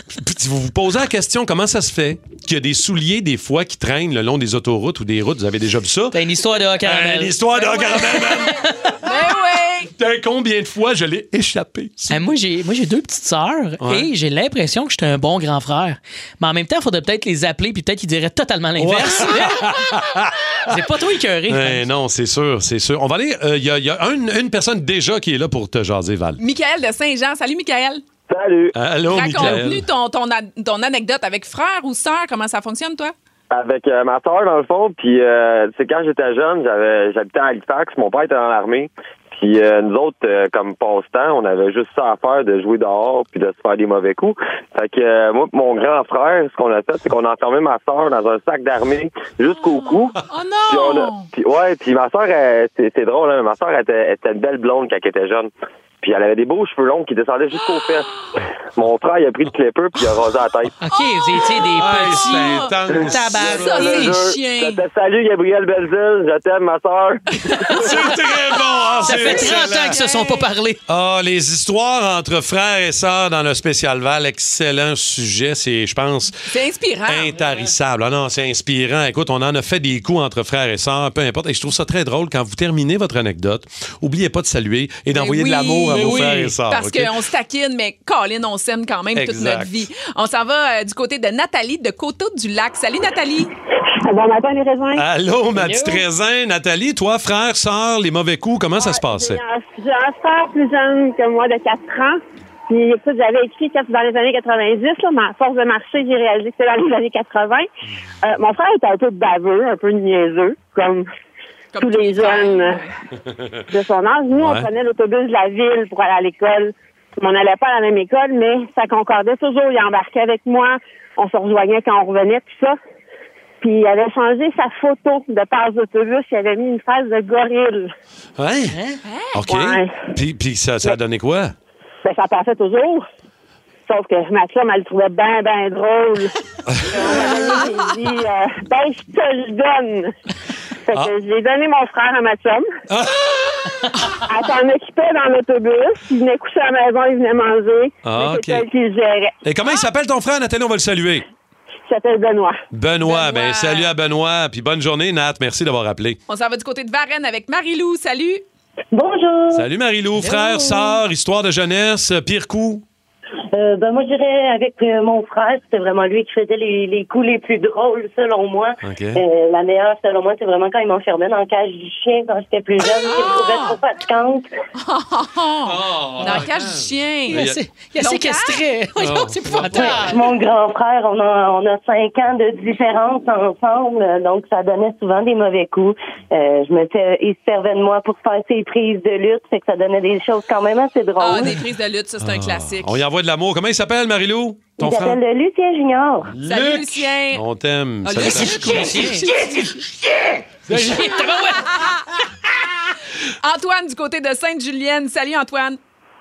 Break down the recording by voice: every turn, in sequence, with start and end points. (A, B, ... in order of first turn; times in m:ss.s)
0:00.1-0:06.2 A
0:06.1-0:07.4 B
0:06.8-0:09.0 A
0:07.6-0:09.9 C
0:10.0-0:12.2 A
0:12.1-0:19.6 B
0:13.8-0:14.1 A
0:18.8-0:20.3 A
0:20.7-0:21.8 B
0:21.5-0:26.4 A
0:26.4-0:28.0 C
0:28.3-0:28.7 D
0:28.7-0:29.9 A
0:29.1-0:33.1 C
0:33.5-0:50.1 D
0:49.7-0:51.3 C
0:50.7-0:58.1 D
0:58.8-1:00.7 D
1:00.8-1:04.2 B
1:00.9-1:02.7 C
1:01.7-1:04.1 A
1:03.4-1:04.8 C
1:03.5-1:07.8 D
1:07.7-1:10.0 A
1:07.8-1:10.4 C
1:09.0-1:10.8 B
1:10.9-1:16.3 A
1:16.5-1:17.4 C
1:17.1-1:27.1 A
1:25.1-1:33.5 C
1:25.9-1:26.5 B
1:29.1-1:29.8 A
1:34.0-1:35.0 E
1:34.9-1:39.4 A
1:35.5-1:36.0 B
1:38.8-1:47.7 E
1:48.2-1:51.1 E
1:51.7-1:52.9 C
1:51.8-1:52.8 E
1:53.7-2:02.8 E
1:54.4-1:54.7 A
2:03.6-2:07.9 E
2:08.4-2:08.8 A
2:08.7-2:09.0 B
2:09.0-2:09.4 C
2:09.3-2:11.5 A
2:09.5-2:10.0 E
2:12.0-2:13.0 E
2:13.9-2:16.3 E
2:16.7-2:17.1 A
2:16.8-2:20.1 E
2:20.9-2:22.7 E
2:22.9-2:23.6 A
2:24.2-2:29.3 E
2:28.0-2:28.6 A
2:29.4-2:31.2 A
2:31.9-2:32.6 E
2:32.7-2:36.2 A
2:33.0-2:33.9 C
2:36.3-2:38.4 C
2:38.9-2:39.6 F
2:39.5-2:42.8 A
2:40.2-2:40.6 B
2:43.5-2:54.5 F
2:48.8-2:49.2 A
2:53.0-2:53.8 C
2:54.8-2:57.4 C
2:55.6-2:57.6 A
2:57.3-3:00.2 B
2:58.0-2:58.6 C
2:59.0-3:00.0 A
2:59.5-2:59.9 C
2:59.7-3:11.5 F
3:11.2-3:13.0 C
3:12.2-3:15.2 A
3:14.8-3:16.3 F
3:16.3-3:19.1 A
3:16.4-3:17.4 C
3:18.0-3:19.5 C
3:18.4-3:19.3 B
3:20.7-3:21.1 A
3:20.7-3:21.6 B
3:23.4-3:25.8 C